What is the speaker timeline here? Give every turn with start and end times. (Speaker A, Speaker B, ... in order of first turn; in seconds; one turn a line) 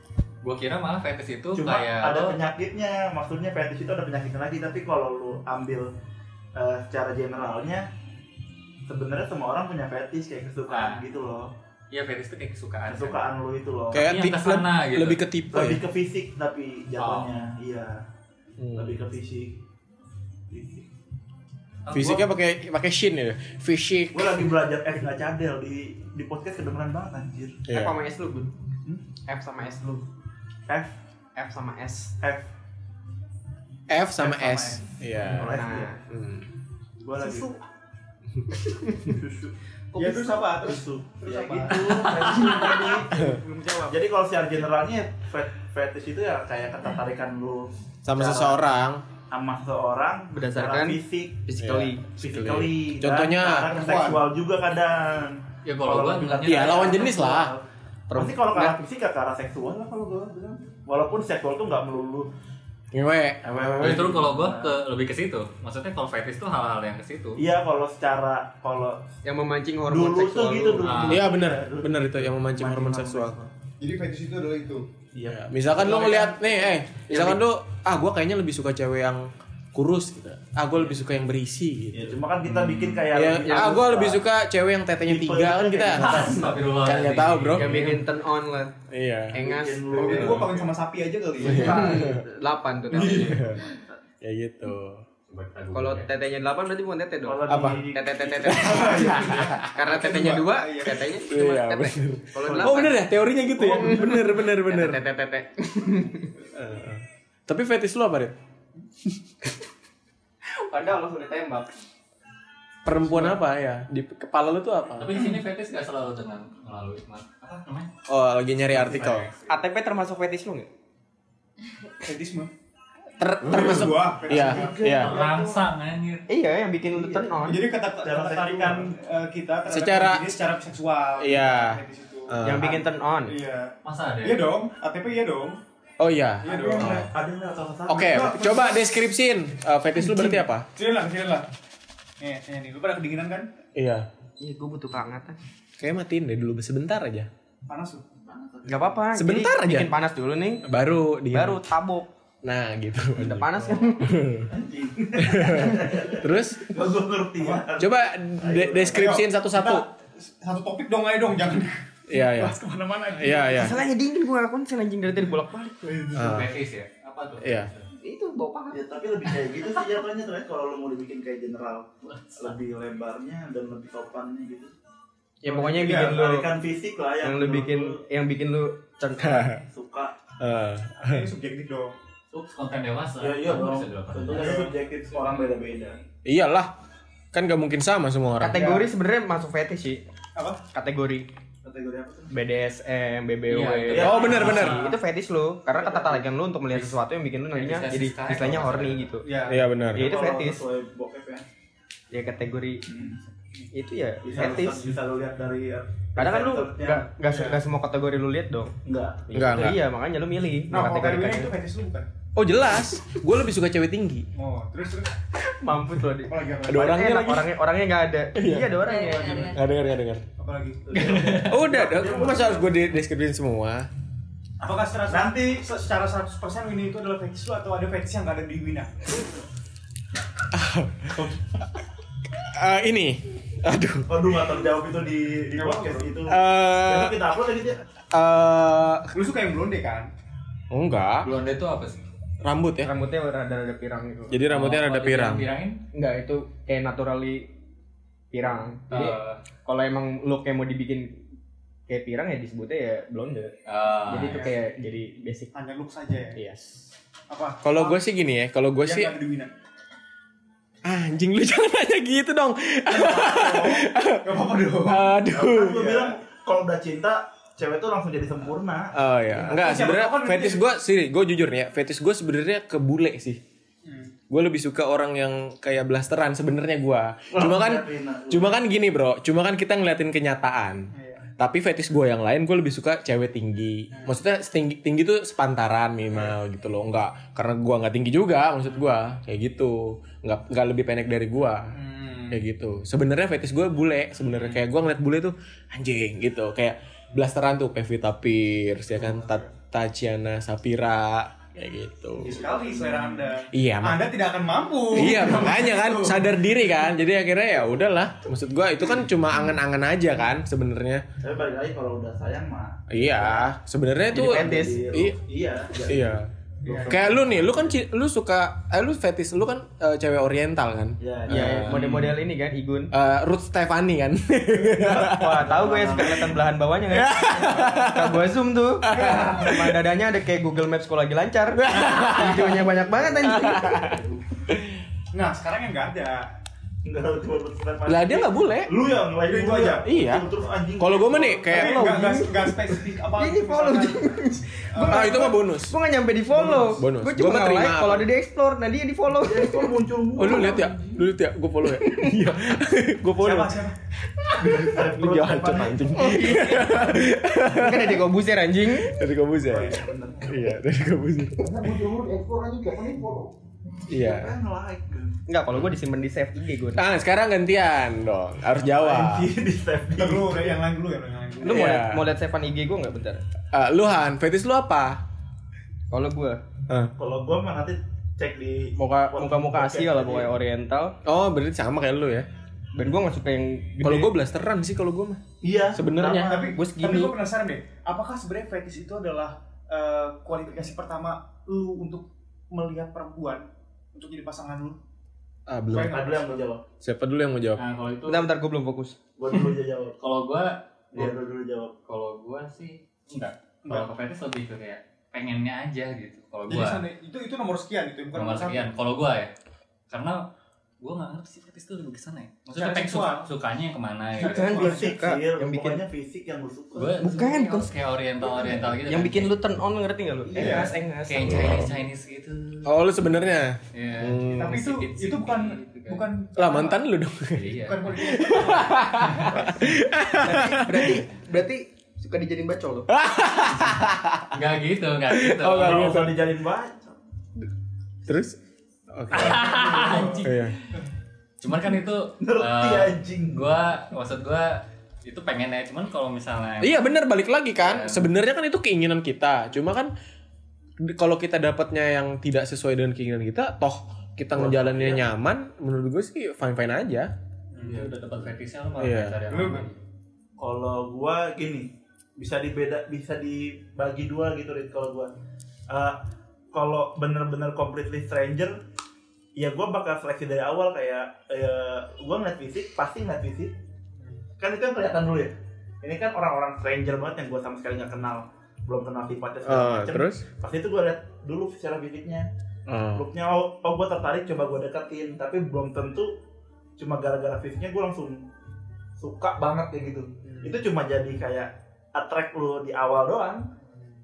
Speaker A: 0.4-2.4
Speaker B: 1.6-5.9
Speaker B: 6.5-7.9
Speaker B: 8.9-11.5
Speaker A: 10.7-11.1
Speaker A: 11.9-13.3
Speaker B: 12.9-14.1
Speaker C: 13.9-15.8
Speaker A: 13.9-15.2
Speaker B: 15.5-18.1
Speaker A: 17.0-17.3
Speaker C: 18.6-19.0
Speaker B: 18.8-19.6
Speaker B: 20.5-20.9
Speaker A: 21.9-22.3
Speaker C: 21.9-24.5
Speaker B: 24.1-27.6
Speaker C: 27.7-28.0
Speaker D: 27.7-28.5
Speaker D: 29.3-30.1
Speaker B: 30.7-31.0
Speaker D: 31.4-32.1
Speaker B: 32.2-32.5
Speaker C: 33.9-36.5
Speaker B: 34.2-36.0
Speaker D: 35.3-36.0
Speaker B: 37.0-37.6
Speaker B: 39.0-43.2
Speaker E: 40.0-44.0
Speaker A: 41.8-42.7
Speaker C: 43.1-43.4
Speaker B: 43.8-48.6
Speaker C: 48.0-49.0
Speaker B: 49.3-51.5
Speaker D: 50.4-52.1
Speaker C: 51.6-53.8
Speaker B: 52.2-62.3
Speaker E: 53.7-54.2
Speaker A: 55.6-57.2
Speaker C: 56.4-57.5
Speaker D: 58.1-58.8
Speaker C: 62.9-64.3
Speaker B: 63.4-64.8
Speaker A: 63.8-67.4
Speaker B: 67.4-69.1
Speaker D: 69.2-71.1
Speaker B: 69.9-73.5
Speaker A: 70.8-71.3
Speaker C: 71.1-73.4
Speaker E: 73.8-74.9
Speaker B: 75.1-77.4
Speaker C: 75.3-88.0
Speaker B: 81.9-84.2
Speaker D: 83.4-84.0
Speaker B: 85.1-86.7
Speaker A: 85.9-88.0
Speaker D: 87.5-88.7
Speaker C: 88.9-89.4
Speaker D: 89.3-90.4
Speaker B: 89.4-90.8
Speaker E: 89.9-92.0
Speaker C: 91.4-92.2
Speaker D: 91.4-93.5
Speaker B: 91.6-91.8
Speaker C: 92.9-93.7
Speaker A: 93.0-93.4
Speaker B: 93.5-94.0
Speaker C: 94.2-95.0
Speaker A: 95.3-96.1
Speaker D: 95.7-103.1
Speaker B: 97.3-99.2
Speaker C: 97.5-97.8
Speaker C: 98.5-100.4
Speaker E: 98.6-101.0
Speaker C: 101.1-105.0
Speaker B: 102.4-103.0
Speaker D: 103.6-106.3
Speaker C: 106.5-108.4
Speaker D: 110.6-111.7
Speaker C: 112.8-115.2
Speaker E: 113.0-113.4
Speaker A: 115.0-117.9
Speaker C: 118.1-119.3
Speaker E: 118.7-119.3
Speaker D: 119.5-120.7
Speaker E: 122.0-122.5
Speaker C: 123.2-125.2
Speaker E: 123.4-124.8
Speaker B: 124.2-125.6
Speaker A: 124.8-126.2
Speaker D: 126.3-127.7
Speaker B: 126.9-129.0
Speaker E: 127.5-135.6
Speaker C: 129.7-130.3
Speaker C: 131.2-132.8
Speaker D: 132.4-133.4
Speaker A: 133.8-134.5
Speaker C: 136.0-137.1
Speaker E: 136.4-137.1
Speaker B: 136.5-138.6
Speaker C: 137.9-140.7
Speaker E: 137.9-139.0
Speaker E: 140.8-141.5
Speaker E: 142.2-143.5
Speaker C: 143.8-144.1
Speaker D: 144.4-145.4
Speaker C: 145.8-147.3
Speaker E: 147.7-148.0
Speaker B: 148.2-149.1
Speaker D: 148.7-150.7
Speaker C: 149.1-149.9
Speaker C: 150.6-151.6
Speaker D: 151.3-152.1
Speaker C: 152.4-154.5
Speaker D: 153.2-154.1
Speaker B: 154.5-159.1
Speaker C: 155.2-156.7
Speaker E: 157.4-157.7
Speaker C: 157.8-159.9
Speaker E: 158.9-162.2
Speaker C: 162.1-162.6
Speaker B: 162.3-163.7
Speaker C: 163.1-163.8
Speaker E: 163.3-163.6
Speaker D: 163.5-166.1
Speaker B: 166.0-166.4
Speaker C: 166.1-166.5
Speaker A: 166.2-167.9
Speaker C: 167.4-167.7
Speaker D: 168.0-168.8
Speaker B: 168.7-174.7
Speaker A: 172.1-172.6
Speaker D: 175.4-176.5
Speaker E: 175.5-176.2
Speaker B: 175.8-178.0
Speaker D: 177.2-179.6
Speaker C: 179.2-179.6
Speaker B: 179.6-180.2
Speaker C: 180.4-181.3
Speaker E: 181.0-181.9
Speaker A: 182.3-184.6
Speaker B: 183.2-186.0
Speaker E: 184.3-184.7
Speaker C: 186.2-186.7
Speaker C: 187.3-188.9
Speaker D: 188.4-190.0
Speaker E: 190.4-190.6
Speaker D: 190.7-191.3
Speaker B: 191.6-192.3
Speaker D: 192.3-199.4
Speaker A: 193.5-195.0
Speaker B: 193.9-194.8
Speaker C: 194.0-194.8
Speaker B: 195.8-196.3
Speaker A: 196.7-197.0
Speaker A: 197.5-199.1
Speaker E: 199.2-199.7
Speaker C: 199.5-200.2
Speaker B: 199.9-201.5
Speaker D: 199.9-200.6
Speaker D: 202.1-202.8
Speaker B: 202.9-203.2
Speaker D: 203.7-204.9
Speaker B: 204.2-207.1
Speaker D: 206.2-208.8
Speaker E: 207.3-207.6
Speaker B: 208.8-209.3
Speaker D: 209.3-211.6
Speaker C: 209.3-209.8
Speaker E: 210.7-212.1
Speaker C: 212.4-214.3
Speaker E: 214.3-215.1
Speaker D: 215.5-219.6
Speaker E: 216.3-216.9
Speaker C: 216.7-217.5
Speaker C: 218.4-218.7
Speaker E: 218.4-219.5
Speaker C: 219.4-220.2
Speaker E: 220.4-220.9
Speaker B: 220.9-222.9
Speaker A: 220.9-221.6
Speaker C: 221.4-223.9
Speaker E: 224.6-229.4
Speaker B: 225.1-225.4
Speaker C: 230.5-231.3
Speaker C: 232.4-234.2
Speaker B: 234.1-237.8
Speaker E: 235.5-236.1
Speaker C: 236.3-237.2
Speaker C: 238.1-239.1
Speaker E: 239.1-240.1
Speaker C: 240.7-241.3
Speaker A: 241.2-242.0
Speaker C: 242.4-242.9
Speaker D: 242.8-244.4
Speaker C: 244.3-245.5
Speaker A: 244.5-245.8
Speaker D: 245.9-247.5
Speaker D: 248.3-251.2
Speaker A: 248.9-249.4
Speaker D: 251.9-255.5
Speaker A: 253.7-254.5
Speaker E: 254.3-254.6
Speaker E: 255.5-256.4
Speaker D: 256.4-256.7
Speaker E: 257.3-258.0
Speaker C: 257.6-259.1
Speaker E: 258.9-259.5
Speaker C: 260.8-266.1
Speaker E: 262.9-265.1
Speaker B: 265.2-269.9
Speaker C: 268.9-273.4
Speaker E: 269.5-270.6
Speaker E: 273.9-274.1
Speaker C: 274.3-291.8
Speaker B: 277.3-278.6
Speaker E: 280.9-281.2
Speaker E: 283.9-284.2
Speaker E: 291.7-292.4
Speaker C: 292.3-302.5
Speaker E: 299.0-299.5
Speaker B: 302.2-303.1
Speaker E: 302.2-306.3
Speaker C: 303.5-304.1
Speaker C: 304.9-311.1
Speaker B: 311.2-313.5
Speaker C: 312.9-315.2
Speaker B: 314.1-317.8
Speaker D: 314.1-314.9
Speaker C: 315.9-316.3
Speaker E: 316.7-317.1
Speaker C: 316.9-322.2
Speaker B: 321.0-321.9
Speaker D: 321.3-322.9
Speaker C: 322.9-325.4
Speaker B: 324.7-326.5
Speaker D: 324.9-333.9
Speaker C: 326.9-329.8
Speaker E: 328.9-329.5
Speaker C: 331.5-334.7
Speaker B: 333.2-334.2
Speaker E: 335.1-336.3
Speaker B: 336.8-341.8
Speaker C: 337.9-338.7
Speaker E: 339.2-339.9
Speaker C: 339.8-340.3
Speaker C: 340.8-342.5
Speaker E: 341.1-345.2
Speaker D: 341.9-349.7
Speaker C: 344.8-345.8
Speaker C: 346.3-348.1
Speaker B: 349.2-350.7
Speaker C: 350.2-353.6
Speaker D: 351.9-352.1
Speaker E: 353.2-353.8
Speaker C: 354.2-358.1
Speaker B: 354.4-357.1
Speaker E: 356.2-356.7
Speaker D: 357.5-358.9
Speaker C: 358.7-361.6
Speaker B: 359.5-360.4
Speaker B: 361.4-365.2
Speaker C: 363.9-364.3
Speaker D: 365.3-366.9
Speaker C: 366.8-369.3
Speaker B: 368.6-370.6
Speaker E: 369.9-371.7
Speaker D: 371.4-373.2
Speaker C: 371.4-372.1
Speaker C: 373.5-375.0
Speaker D: 375.9-376.4
Speaker B: 377.0-380.3
Speaker C: 378.8-379.1
Speaker D: 378.9-381.0
Speaker C: 381.0-382.3
Speaker D: 382.7-384.1
Speaker C: 383.8-385.2
Speaker B: 385.4-386.4
Speaker C: 385.7-386.3
Speaker E: 386.2-394.8
Speaker D: 386.3-387.1
Speaker C: 395.5-396.1
Speaker E: 395.7-396.4
Speaker B: 395.7-396.6
Speaker C: 396.8-397.6
Speaker A: 397.6-398.3
Speaker D: 398.1-399.0
Speaker B: 399.2-400.0
Speaker A: 399.3-401.2
Speaker B: 400.9-401.7
Speaker A: 401.9-406.8
Speaker E: 403.7-403.9
Speaker E: 406.5-408.7
Speaker A: 408.1-409.3
Speaker A: 409.9-414.8
Speaker E: 412.5-413.3
Speaker D: 414.2-415.8
Speaker E: 414.2-415.0
Speaker B: 414.6-417.1
Speaker A: 416.8-419.4
Speaker D: 417.0-417.7
Speaker B: 418.2-418.6
Speaker D: 418.7-421.7
Speaker B: 420.3-420.7
Speaker E: 420.4-420.7
Speaker A: 421.1-423.2
Speaker C: 421.3-421.7
Speaker C: 422.6-424.7
Speaker A: 423.7-426.1
Speaker E: 424.3-426.8
Speaker C: 426.4-427.5
Speaker A: 427.3-429.4
Speaker E: 427.6-429.5
Speaker C: 428.0-431.0
Speaker D: 430.1-432.9
Speaker C: 432.9-434.4
Speaker A: 434.3-435.9
Speaker C: 435.1-436.2
Speaker B: 435.5-437.0
Speaker C: 438.1-438.4
Speaker C: 438.9-440.6
Speaker A: 439.1-440.4
Speaker E: 439.3-440.3
Speaker A: 441.4-446.9
Speaker B: 442.2-443.6
Speaker C: 446.6-449.9
Speaker A: 447.6-448.1
Speaker C: 450.8-457.1
Speaker B: 454.3-455.1
Speaker E: 457.5-457.9
Speaker A: 457.6-459.8
Speaker C: 458.8-459.2
Speaker E: 459.3-459.7
Speaker B: 460.4-465.1
Speaker B: 465.7-466.0
Speaker B: 466.5-468.6
Speaker B: 469.4-473.6
Speaker B: 474.4-482.3
Speaker C: 479.4-480.2
Speaker C: 482.7-483.1
Speaker B: 482.9-486.2
Speaker B: 486.8-488.2
Speaker B: 489.0-493.5
Speaker E: 490.2-490.6